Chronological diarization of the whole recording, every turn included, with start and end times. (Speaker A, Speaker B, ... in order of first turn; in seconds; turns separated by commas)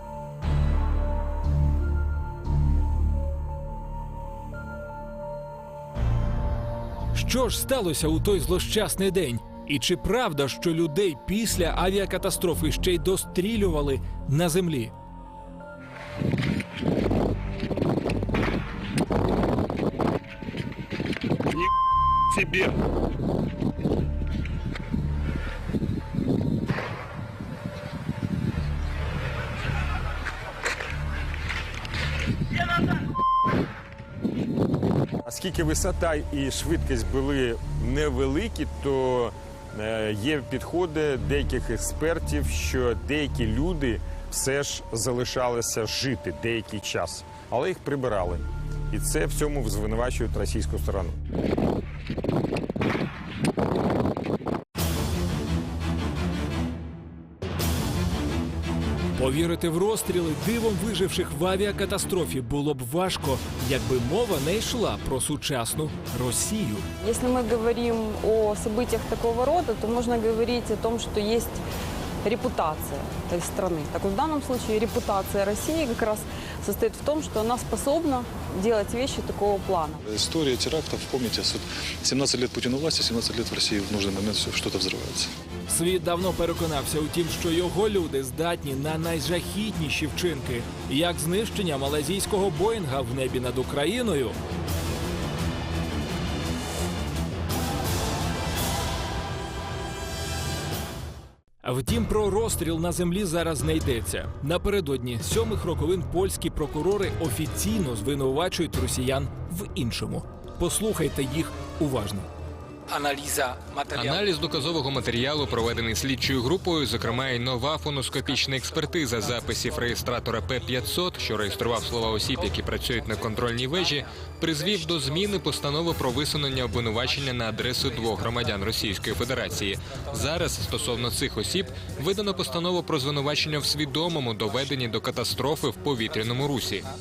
Speaker A: 7.1-14.9, Speaker B: 35.3-51.2, Speaker A: 59.1-66.8, Speaker C: 67.0-71.6, Speaker C: 72.2-80.0, Speaker D: 80.1-85.3, Speaker A: 85.7-94.4, Speaker A: 101.6-112.3, Speaker E: 113.9-136.8